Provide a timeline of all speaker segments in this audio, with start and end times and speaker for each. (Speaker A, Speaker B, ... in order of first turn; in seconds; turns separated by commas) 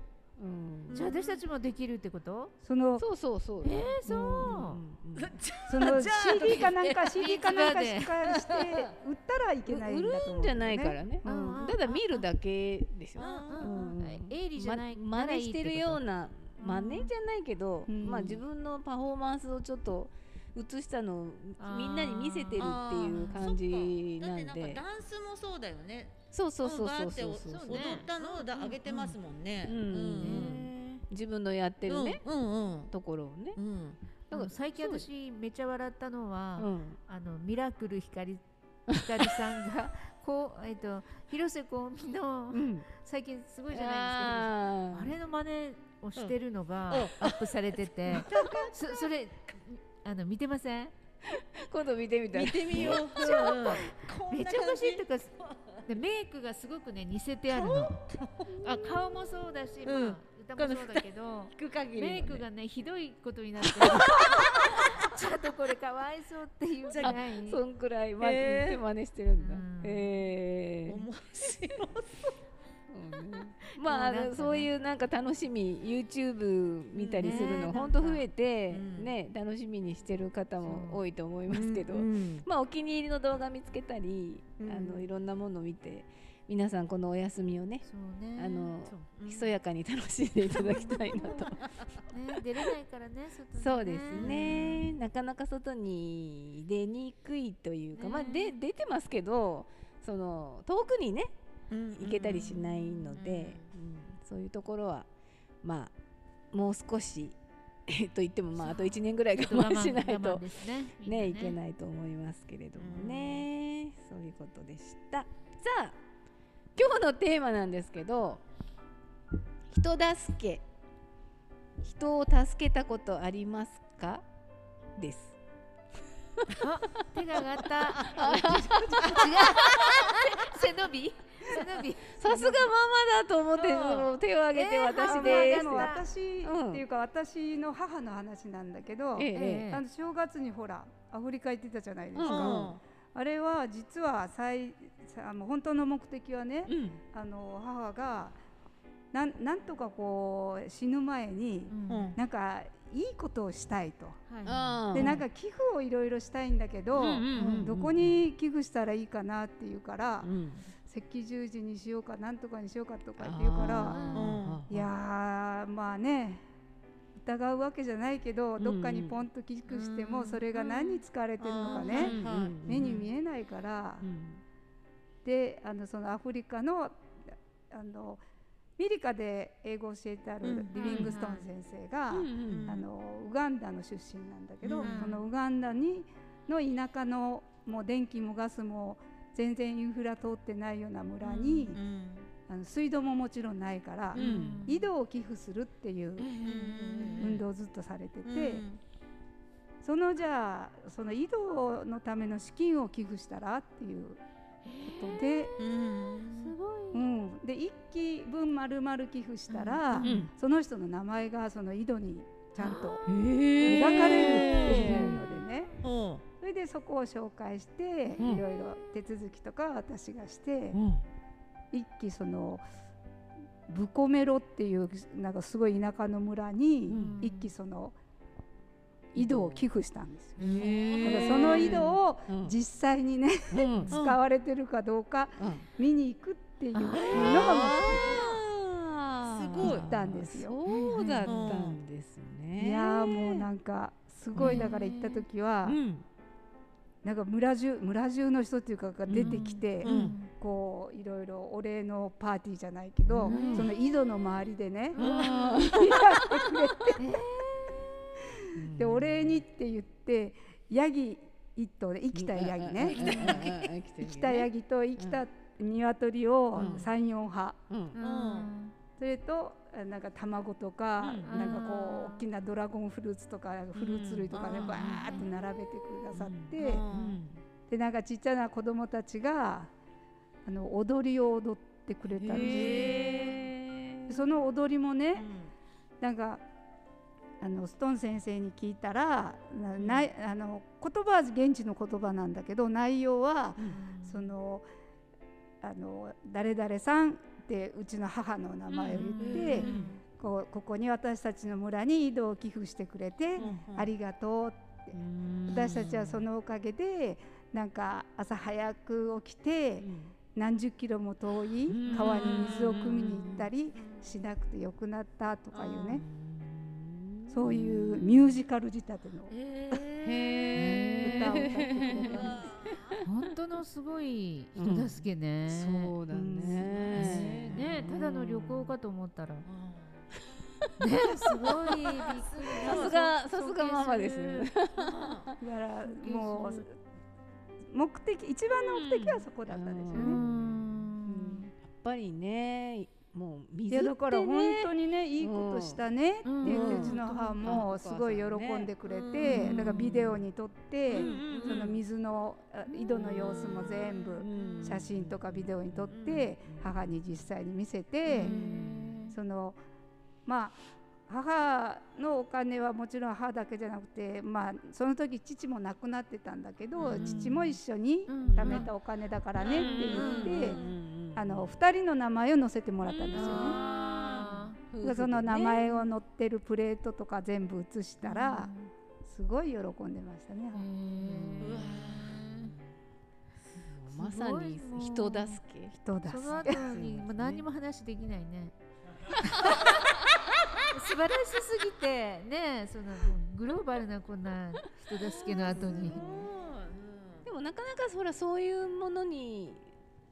Speaker A: 0.4-1.2, Speaker B: 0.9-2.5, Speaker C: 2.6-3.0, Speaker A: 3.0-5.3, Speaker B: 3.6-4.8, Speaker D: 5.2-7.3, Speaker C: 5.7-11.6, Speaker B: 7.2-8.1, Speaker D: 8.2-8.7, Speaker A: 9.7-24.8, Speaker B: 11.2-12.2, Speaker D: 13.2-13.7, Speaker B: 13.2-16.0, Speaker B: 16.6-17.1, Speaker C: 17.9-18.4, Speaker B: 21.6-23.4, Speaker D: 22.6-30.7, Speaker A: 26.3-32.2, Speaker B: 27.5-28.1, Speaker B: 30.2-30.5, Speaker D: 31.9-32.9, Speaker A: 32.9-33.6, Speaker D: 33.6-34.0, Speaker A: 34.3-35.1, Speaker B: 34.3-50.9, Speaker A: 36.6-37.0, Speaker A: 42.5-42.9, Speaker A: 43.7-45.1, Speaker D: 46.9-47.5, Speaker D: 48.1-49.1, Speaker A: 48.1-48.6, Speaker A: 51.3-53.8, Speaker D: 52.3-55.8, Speaker B: 52.8-55.3, Speaker B: 55.9-58.0, Speaker D: 57.5-58.5, Speaker B: 58.6-67.6, Speaker D: 59.9-62.4, Speaker D: 63.7-64.8, Speaker D: 66.9-67.2, Speaker A: 67.0-71.0, Speaker D: 68.2-68.8, Speaker B: 69.4-70.1, Speaker D: 70.9-72.3, Speaker A: 72.9-87.8, Speaker B: 73.7-74.7, Speaker D: 76.9-77.7, Speaker B: 77.2-78.2, Speaker D: 78.7-79.1, Speaker B: 80.6-81.0, Speaker D: 81.5-82.5, Speaker D: 84.6-85.1, Speaker B: 87.8-88.8, Speaker A: 88.4-91.5, Speaker D: 88.8-89.6, Speaker B: 90.5-91.5, Speaker D: 91.1-91.7, Speaker B: 92.1-94.9, Speaker A: 93.5-101.3, Speaker D: 94.1-94.8, Speaker B: 98.0-98.5, Speaker D: 101.7-103.7, Speaker A: 102.0-105.1, Speaker A: 105.6-105.9, Speaker A: 106.5-107.4, Speaker A: 107.9-110.5, Speaker B: 108.6-111.6, Speaker A: 111.0-116.0, Speaker D: 112.8-113.5, Speaker A: 116.8-118.4, Speaker A: 119.7-120.6, Speaker A: 121.8-124.2, Speaker A: 125.0-125.4, Speaker A: 126.4-126.7, Speaker B: 126.6-132.7, Speaker A: 128.0-130.3, Speaker D: 128.8-130.0, Speaker A: 132.2-135.9, Speaker D: 133.7-134.1, Speaker B: 134.5-136.1, Speaker C: 134.9-148.4, Speaker A: 136.4-136.8, Speaker A: 139.2-139.7, Speaker B: 139.3-139.8, Speaker A: 142.2-142.7, Speaker D: 142.2-142.8, Speaker A: 146.7-147.0, Speaker C: 149.1-154.2, Speaker B: 151.7-152.1, Speaker D: 151.9-152.2, Speaker B: 154.3-155.2, Speaker A: 154.4-155.2, Speaker C: 154.9-160.3, Speaker A: 156.9-158.2, Speaker B: 157.4-157.7, Speaker A: 160.2-160.6, Speaker C: 160.9-166.4, Speaker A: 163.2-164.9, Speaker B: 163.7-164.3, Speaker D: 164.1-164.7, Speaker C: 167.2-174.1, Speaker A: 168.6-169.2, Speaker B: 169.8-171.0, Speaker D: 171.4-173.0, Speaker A: 171.8-172.9, Speaker A: 174.0-174.4, Speaker C: 175.2-178.2, Speaker C: 178.8-191.8, Speaker D: 180.4-181.1, Speaker B: 180.8-181.5, Speaker A: 182.1-182.8, Speaker D: 182.5-182.7, Speaker D: 184.6-184.9, Speaker B: 184.8-185.2, Speaker B: 191.2-191.7, Speaker D: 191.7-192.3, Speaker C: 192.5-196.3, Speaker A: 194.2-194.6, Speaker B: 194.2-194.9, Speaker B: 196.2-197.4, Speaker D: 196.4-197.4, Speaker C: 197.2-198.7, Speaker D: 198.2-198.8, Speaker C: 199.8-204.2, Speaker B: 204.7-205.6, Speaker C: 204.8-205.5, Speaker D: 205.6-206.5, Speaker B: 206.4-207.1, Speaker C: 206.9-213.0, Speaker B: 209.5-210.2, Speaker A: 210.0-210.3, Speaker B: 212.6-213.1, Speaker A: 213.1-215.2, Speaker C: 213.6-215.7, Speaker D: 213.7-214.8, Speaker B: 214.8-215.2, Speaker D: 215.8-216.2, Speaker C: 216.4-220.8, Speaker A: 218.2-218.4, Speaker A: 220.7-221.0, Speaker C: 221.7-222.6, Speaker C: 223.7-228.0, Speaker A: 226.9-227.2, Speaker B: 226.9-227.5, Speaker C: 229.1-238.3, Speaker A: 229.2-229.6, Speaker A: 230.4-232.6, Speaker D: 230.4-231.8, Speaker A: 233.5-233.9, Speaker D: 233.9-234.2, Speaker A: 235.4-235.7, Speaker B: 236.7-237.3, Speaker A: 237.1-243.5, Speaker D: 237.1-238.4, Speaker D: 239.2-239.9, Speaker C: 239.6-240.6, Speaker B: 240.7-241.3, Speaker D: 241.3-241.8, Speaker C: 242.6-245.8, Speaker A: 244.4-244.7, Speaker B: 244.4-245.2, Speaker A: 245.7-246.0, Speaker C: 247.0-257.0, Speaker A: 249.1-250.1, Speaker B: 249.2-250.3, Speaker D: 249.8-250.1, Speaker A: 253.1-253.7, Speaker B: 253.2-253.7, Speaker B: 254.9-255.7, Speaker A: 255.0-259.4, Speaker B: 257.0-257.3, Speaker C: 258.6-267.6, Speaker A: 262.1-265.2, Speaker D: 262.9-263.4, Speaker A: 266.6-266.9, Speaker A: 267.7-268.0, Speaker B: 267.9-268.7, Speaker D: 268.0-268.5, Speaker C: 269.0-276.9, Speaker A: 271.0-271.6, Speaker B: 271.3-272.2, Speaker A: 273.8-275.2, Speaker D: 274.3-274.9, Speaker A: 276.1-277.4, Speaker D: 276.6-277.2, Speaker C: 277.7-279.7, Speaker C: 280.4-283.3, Speaker A: 282.1-284.2, Speaker D: 282.3-283.4, Speaker C: 284.1-285.3, Speaker D: 285.2-285.5, Speaker C: 286.0-286.4, Speaker C: 287.4-294.7, Speaker A: 293.6-293.9, Speaker B: 293.8-294.1, Speaker C: 295.6-316.0, Speaker B: 298.7-300.0, Speaker D: 299.2-299.8, Speaker A: 299.3-299.9, Speaker D: 303.4-303.9, Speaker A: 304.9-306.2, Speaker A: 309.8-310.1, Speaker A: 311.7-313.5, Speaker D: 311.8-314.1, Speaker D: 315.5-316.1, Speaker A: 316.0-318.4, Speaker C: 317.3-319.3, Speaker D: 319.3-321.2, Speaker A: 320.0-323.1, Speaker C: 320.6-322.4, Speaker D: 322.0-322.9, Speaker B: 323.0-325.9, Speaker A: 324.6-328.8, Speaker C: 326.1-326.9, Speaker D: 326.9-327.6, Speaker B: 326.9-329.5, Speaker D: 329.5-330.1, Speaker B: 330.8-334.5, Speaker A: 331.4-335.4, Speaker D: 332.4-333.0, Speaker D: 334.9-335.3, Speaker C: 335.4-336.8, Speaker A: 336.1-336.5, Speaker C: 337.7-340.2, Speaker A: 338.7-340.9, Speaker B: 339.9-341.5, Speaker C: 341.1-341.5, Speaker A: 341.6-345.8, Speaker C: 343.7-358.4, Speaker B: 346.2-347.6, Speaker A: 346.4-348.7, Speaker D: 348.9-349.5, Speaker B: 349.2-350.2, Speaker A: 349.2-349.8, Speaker A: 350.9-351.8, Speaker D: 351.0-351.8, Speaker A: 352.9-356.7, Speaker D: 353.4-353.7, Speaker D: 354.4-354.8, Speaker D: 355.9-356.3, Speaker B: 358.1-359.1, Speaker A: 358.1-359.0, Speaker C: 359.1-359.6, Speaker C: 360.3-360.6, Speaker C: 361.1-370.6, Speaker A: 366.8-367.3, Speaker B: 366.9-368.7, Speaker A: 368.4-368.7, Speaker D: 369.4-370.8, Speaker A: 369.4-371.5, Speaker B: 370.0-370.4, Speaker C: 371.1-373.6, Speaker A: 372.9-375.8, Speaker B: 373.1-374.6, Speaker C: 374.8-378.5, Speaker B: 378.0-378.7, Speaker C: 379.0-380.7, Speaker B: 380.5-382.5, Speaker A: 381.0-382.7, Speaker D: 381.4-382.2, Speaker A: 383.6-385.8, Speaker B: 383.9-385.4, Speaker C: 385.8-386.8, Speaker B: 386.1-388.5, Speaker A: 386.4-387.4, Speaker B: 389.2-389.7, Speaker B: 390.7-396.0, Speaker A: 395.3-396.3, Speaker D: 395.6-397.3, Speaker A: 397.2-399.6